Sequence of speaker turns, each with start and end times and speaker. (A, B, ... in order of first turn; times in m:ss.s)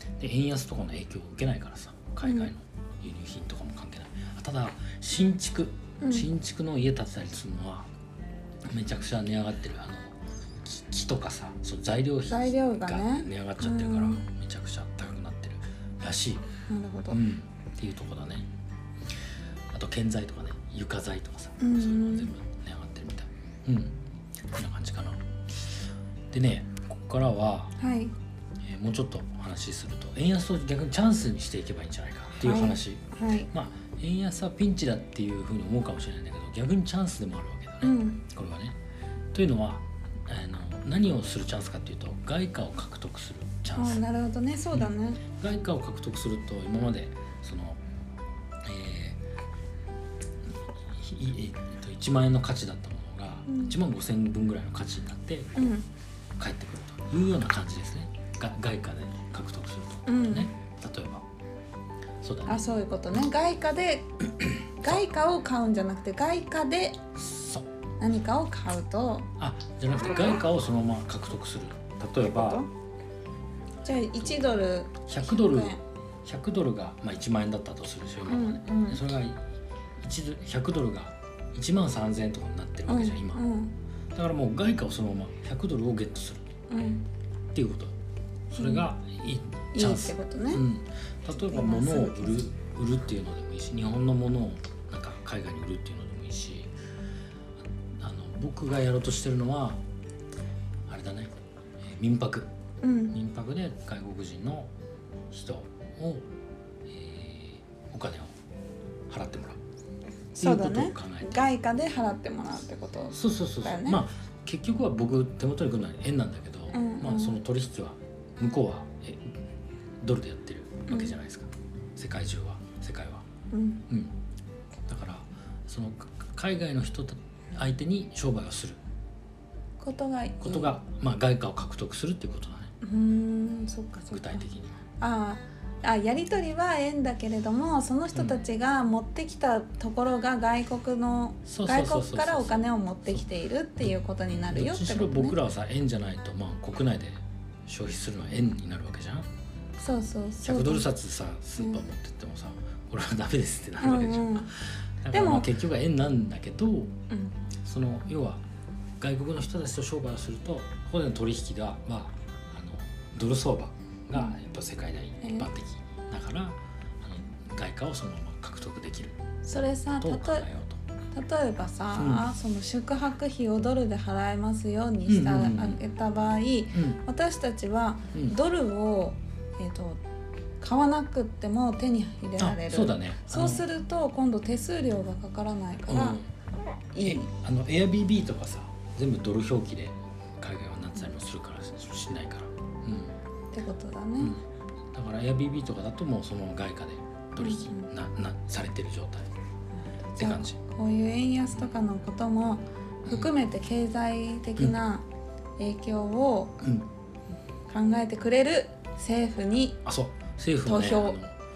0:00.2-0:07.9 A
0:02.2-0:02.5 B
0:06.0-0:06.3 B
0:08.7-0:16.5 A
0:12.3-0:14.2 B
0:16.7-0:17.2 B
0:17.1-0:18.5 A
0:19.7-0:24.0 A
0:21.6-0:22.3 B
0:24.5-0:25.7 A
0:26.3-0:27.8 A
0:27.8-0:28.2 B
0:28.6-0:38.8 A
0:32.3-0:33.5 B
0:37.8-0:38.2 B
0:39.3-0:44.0 A
0:43.8-0:45.2 B
0:44.7-0:47.8 A
0:48.6-0:49.2 A
0:50.9-0:55.7 A
0:53.5-0:53.7 B
0:55.6-0:55.9 B
0:56.4-1:01.2 A
1:00.1-1:00.5 B
1:02.2-1:03.3 A
1:02.5-1:04.1 B
1:04.6-1:07.0 B
1:07.2-1:07.7 A
1:08.0-1:09.3 B
1:09.4-1:12.7 A
1:12.2-1:12.7 B
1:13.8-1:15.8 B
1:14.2-1:19.4 A
1:18.3-1:19.0 B
1:20.0-1:23.4 A
1:22.9-1:23.7 B
1:24.1-1:26.5 A
1:26.7-1:27.1 B
1:27.5-1:28.0 A
1:28.5-1:36.7 A
1:28.6-1:28.8 B
1:29.7-1:30.6 B
1:31.5-1:32.4 B
1:38.0-1:39.8 A
1:40.9-1:42.5 A
1:42.8-1:43.2 B
1:43.1-1:44.7 A
1:45.3-1:46.2 A
1:46.9-1:48.3 A
1:49.1-1:49.6 A
1:50.3-1:54.0 B
1:50.4-1:51.6 A
1:53.1-1:59.4 A
1:56.7-1:57.4 B
2:00.0-2:03.2 A
2:00.9-2:01.1 B
2:03.5-2:03.9 B
2:04.9-2:08.8 A
2:09.8-2:10.8 B
2:10.4-2:12.7 A
2:12.8-2:14.4 B
2:14.1-2:14.8 A
2:15.0-2:25.4 B
2:18.1-2:18.4 A
2:21.5-2:23.3 A
2:24.5-2:29.3 A
2:29.8-2:30.9 B
2:30.4-2:37.0 A
2:33.8-2:34.5 B
2:35.1-2:35.5 B
2:37.6-2:38.4 A
2:39.0-2:49.2 A
2:45.2-2:45.5 B
2:49.4-2:50.5 B
2:49.9-2:50.8 A
2:51.1-3:00.0 B
2:51.9-2:52.3 A
2:55.1-2:55.8 A
2:56.7-2:57.0 A
3:00.6-3:06.2 B
3:02.4-3:03.7 A
3:05.9-3:06.3 A
3:06.9-3:07.3 B
3:07.0-3:13.2 A
3:13.5-3:14.4 B
3:14.9-3:19.3 A
3:17.4-3:17.9 B
3:19.9-3:25.0 B
3:20.2-3:20.6 A
3:25.6-3:26.6 B
3:26.6-3:26.9 A
3:27.7-3:29.8 B
3:29.8-3:31.3 A
3:30.6-3:31.2 B